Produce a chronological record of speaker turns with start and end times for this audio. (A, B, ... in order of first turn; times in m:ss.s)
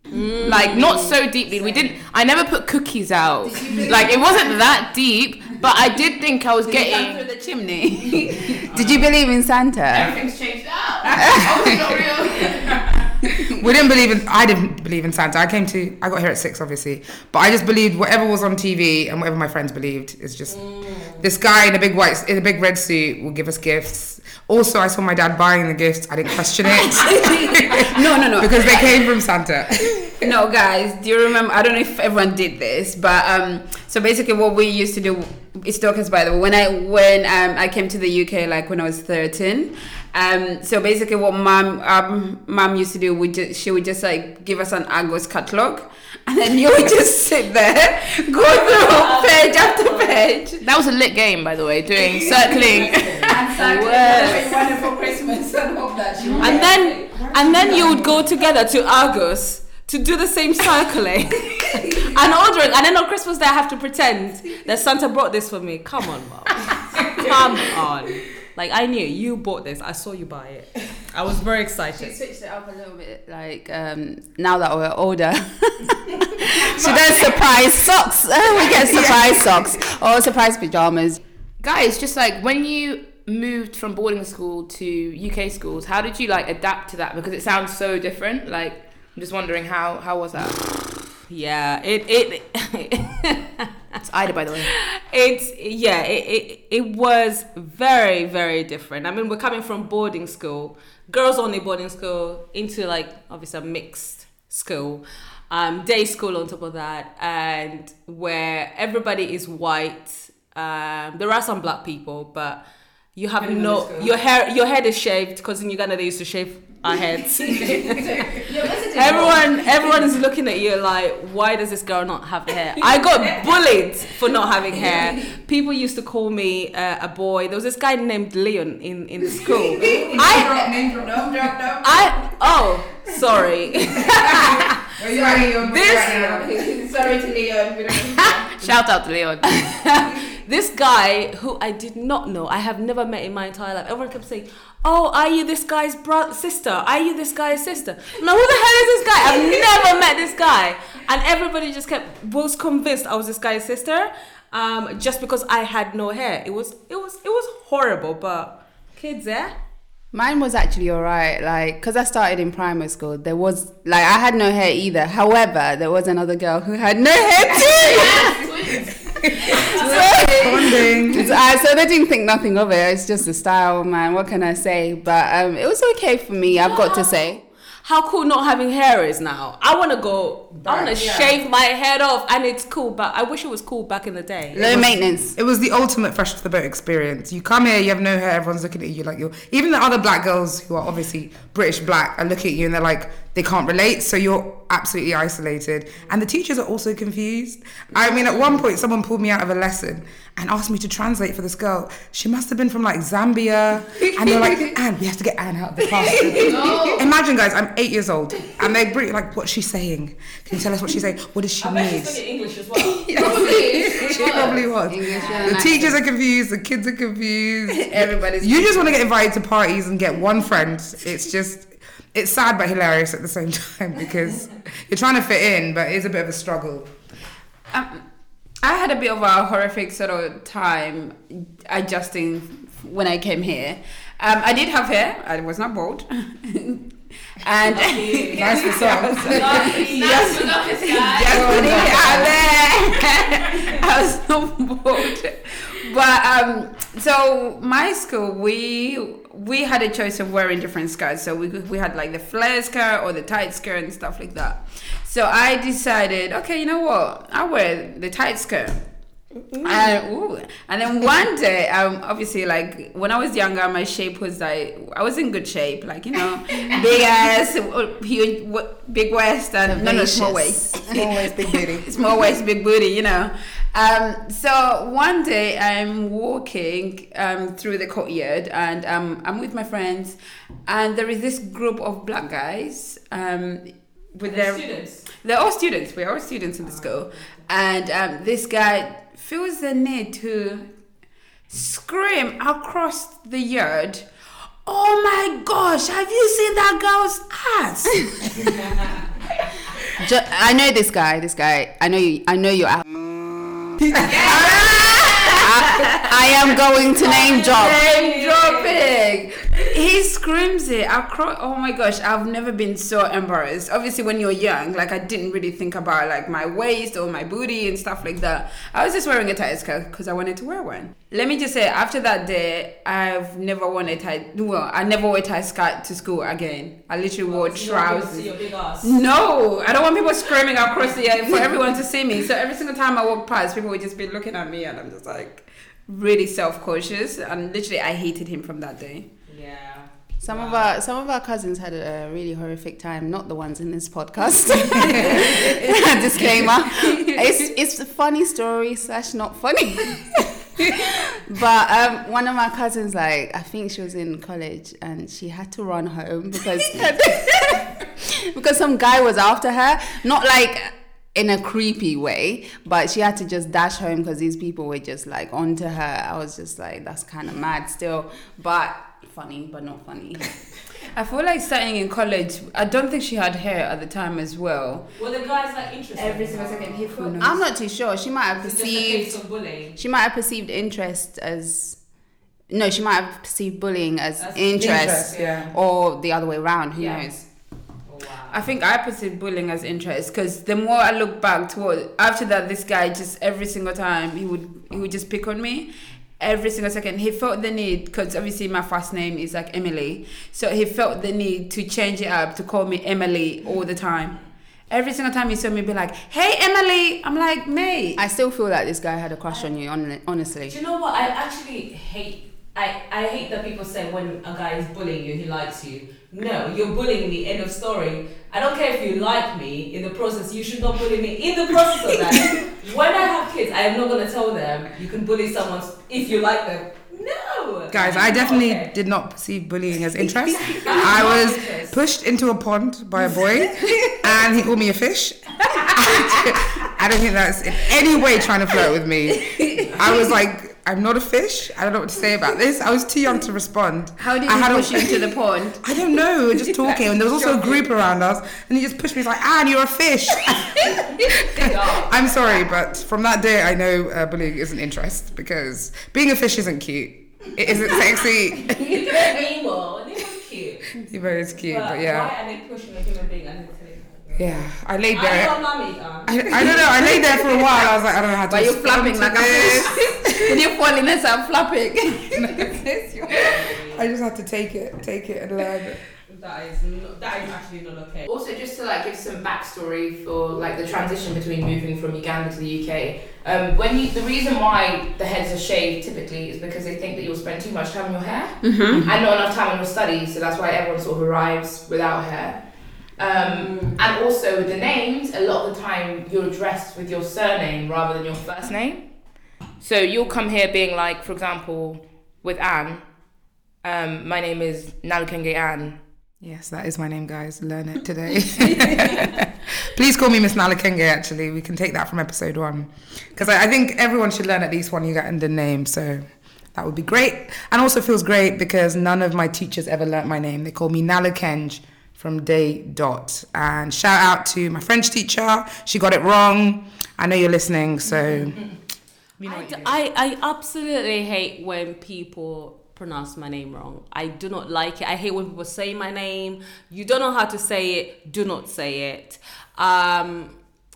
0:00.1-0:01.1 A
0:00.4-0:07.2 B
0:03.4-0:04.8 C
0:06.6-0:09.0 C
0:08.7-0:10.1 D
0:09.9-0:13.1 B
0:11.1-0:12.7 C
0:13.4-0:30.2 E
0:20.5-0:21.2 A
0:26.8-0:29.0 C
0:30.2-0:50.6 C
0:48.4-0:50.2 A
0:50.6-0:53.3 B
0:52.2-0:58.2 C
0:52.9-0:53.3 E
0:53.5-0:54.6 A
0:56.4-1:12.1 A
0:57.2-0:58.1 E
1:01.8-1:02.1 C
1:12.0-1:21.2 D
1:16.6-1:17.7 E
1:18.4-1:19.8 E
1:21.6-1:30.7 B
1:31.2-1:33.7 A
1:34.0-1:34.7 B
1:34.6-1:52.6 A
1:53.1-2:10.7 A
1:53.4-1:54.1 C
1:57.6-2:00.0 C
2:04.7-2:05.2 C
2:09.4-2:12.4 C
2:09.8-2:11.6 E
2:11.8-2:14.6 A
2:13.9-2:18.7 C
2:14.0-2:16.6 E
2:15.7-2:16.2 A
2:18.5-2:19.9 B
2:20.2-2:39.6 A
2:40.1-2:48.6 D
2:47.9-2:48.4 C
2:48.2-2:48.8 B
2:49.4-2:57.4 D
2:49.4-2:51.2 C
2:49.6-2:50.3 A
2:50.2-2:51.3 E
2:56.4-3:04.6 A
3:00.6-3:01.3 E
3:04.5-3:05.4 D
3:04.6-3:32.2 E
3:17.9-3:18.6 C
3:24.0-3:24.7 C
3:25.8-3:27.0 C
3:26.4-3:27.0 B
3:31.6-3:34.4 A
3:33.0-3:34.5 C
3:33.2-3:46.9 E
3:33.9-3:36.0 D
3:35.1-3:35.5 C
3:37.7-3:39.0 C
3:47.7-3:48.0 C
3:48.6-4:18.8 C
3:57.6-4:02.2 A
3:58.3-3:59.8 E
3:59.6-4:02.1 B
4:01.2-4:02.4 E
4:19.5-4:50.7 C
4:29.6-4:31.0 D
4:30.9-4:31.9 E
4:44.2-4:45.0 A
4:46.6-4:46.9 A
4:51.5-4:54.1 C
4:54.6-4:58.9 C
4:59.9-5:02.9 D
5:03.8-5:04.3 E
5:03.9-5:06.3 C
5:04.2-5:04.6 A
5:05.4-5:07.8 D
5:07.0-5:08.9 A
5:07.1-5:28.3 C
5:27.2-5:28.9 A
5:28.8-5:39.1 C
5:39.3-5:40.7 A
5:40.2-6:10.3 D
5:44.8-5:47.1 C
6:10.8-6:14.8 C
6:15.0-6:17.1 A
6:15.9-6:17.4 C
6:17.2-6:19.2 D
6:18.4-6:19.8 A
6:19.8-6:21.8 D
6:22.5-6:27.2 D
6:24.2-6:25.4 A
6:24.6-6:25.5 E
6:26.8-6:27.0 A
6:27.8-6:28.4 A
6:28.3-6:48.0 C
6:48.0-6:50.6 D
6:50.5-7:08.7 A
7:07.7-7:39.2 E
7:10.3-7:11.5 C
7:10.6-7:11.7 A
7:13.6-7:14.0 C
7:15.5-7:16.4 C
7:19.1-7:20.1 C
7:24.0-7:25.6 C
7:31.4-7:31.8 C
7:37.5-7:40.7 A
7:40.8-7:42.1 E
7:41.5-7:44.3 A
7:44.1-7:45.4 E
7:44.9-7:47.1 A
7:46.0-7:50.4 E
7:48.3-7:49.7 D
7:49.2-7:53.5 C
7:52.1-7:52.5 E
7:53.0-7:53.8 A
7:53.1-7:55.8 E
7:56.1-7:58.1 A
7:58.1-8:12.4 B
8:08.4-8:08.9 C
8:13.0-8:18.8 B
8:13.2-8:13.8 A
8:19.6-8:22.8 B
8:23.6-8:25.8 B
8:26.2-8:48.4 E
8:49.2-8:49.7 E
8:49.2-9:00.3 A